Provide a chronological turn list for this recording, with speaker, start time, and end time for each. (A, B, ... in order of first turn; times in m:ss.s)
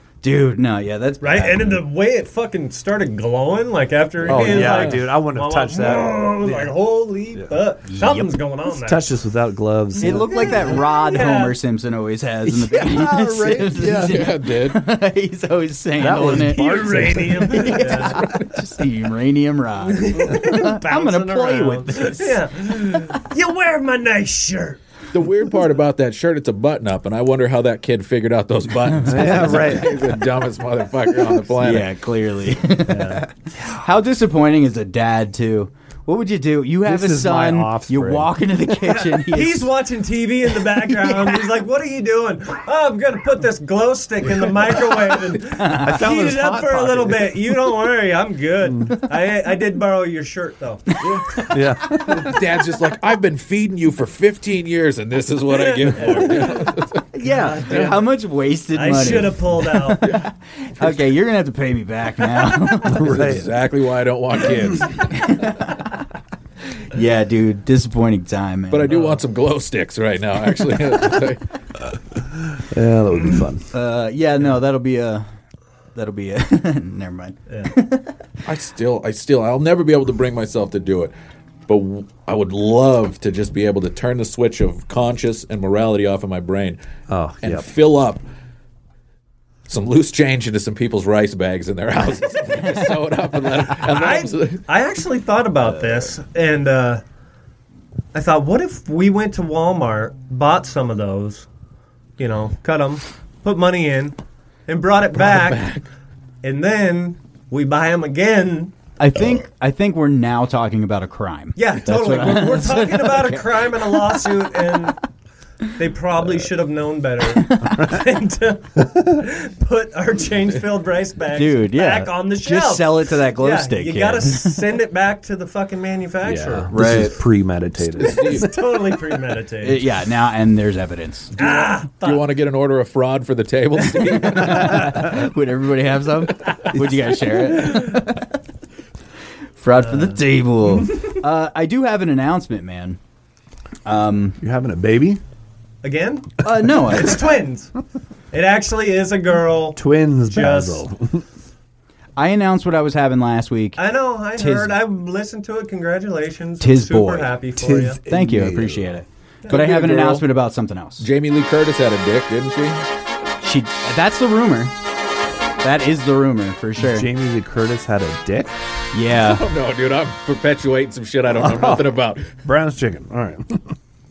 0:00.2-0:01.8 A
0:01.2-0:09.2 B
0:04.2-0:06.8 C
0:04.3-0:05.0 D
0:07.3-0:07.6 C
0:07.8-0:08.4 A
0:08.7-0:10.8 C
0:10.0-0:22.7 A
0:10.0-0:11.6 B
0:12.4-0:14.2 C
0:14.0-0:14.8 D
0:16.0-0:18.0 C
0:16.3-0:18.3 B
0:20.0-0:24.8 B
0:25.1-0:31.9 D
0:29.0-0:30.0 C
0:29.2-0:29.8 A
0:31.5-0:39.7 A
0:32.9-0:33.2 B
0:36.8-0:38.4 C
0:39.2-0:51.0 B
0:40.6-0:41.5 A
0:45.6-0:46.0 A
0:45.7-0:47.5 C
0:48.6-0:49.0 C
0:51.0-0:57.1 D
0:51.5-0:52.4 C
0:55.5-0:56.7 B
0:57.1-1:03.2 A
0:57.2-0:58.1 B
0:57.7-0:58.0 D
0:58.7-1:00.2 B
1:02.9-1:03.5 C
1:03.0-1:05.4 D
1:05.1-1:05.9 A
1:06.9-1:09.1 A
1:08.7-1:11.4 D
1:08.9-1:09.2 B
1:12.5-1:13.7 C
1:13.7-1:15.3 A
1:16.0-1:18.2 A
1:18.4-1:21.1 D
1:21.7-1:26.8 D
1:27.1-1:27.7 C
1:27.4-1:28.2 D
1:29.7-1:34.6 D
1:33.8-1:37.0 B
1:38.1-1:41.5 B
1:42.2-1:45.8 B
1:45.2-1:45.8 D
1:46.4-1:48.7 B
1:49.0-1:54.2 A
1:51.6-1:55.0 B
1:55.8-2:06.7 B
1:57.5-1:57.8 A
2:01.3-2:04.6 A
2:06.2-2:08.4 C
2:06.7-2:07.2 A
2:07.9-2:08.6 D
2:08.0-2:09.8 B
2:09.6-2:11.5 A
2:11.4-2:12.2 B
2:12.0-2:14.9 D
2:14.0-2:18.3 A
2:19.6-2:23.0 A
2:19.8-2:20.2 B
2:23.9-2:24.4 A
2:24.4-2:25.2 C
2:25.8-2:27.7 B
2:26.4-2:27.3 A
2:28.3-2:30.8 B
2:29.8-2:31.2 C
2:32.2-2:34.8 A
2:33.8-2:38.0 B
2:36.6-2:37.4 A
2:37.6-2:39.0 C
2:38.0-2:41.1 A
2:39.5-2:40.3 D
2:41.0-2:42.8 D
2:43.4-2:44.7 A
2:45.6-2:47.1 A
2:46.8-2:48.6 C
2:48.9-2:49.5 A
2:49.2-2:52.4 D
2:51.4-2:51.8 C
2:52.4-2:53.7 C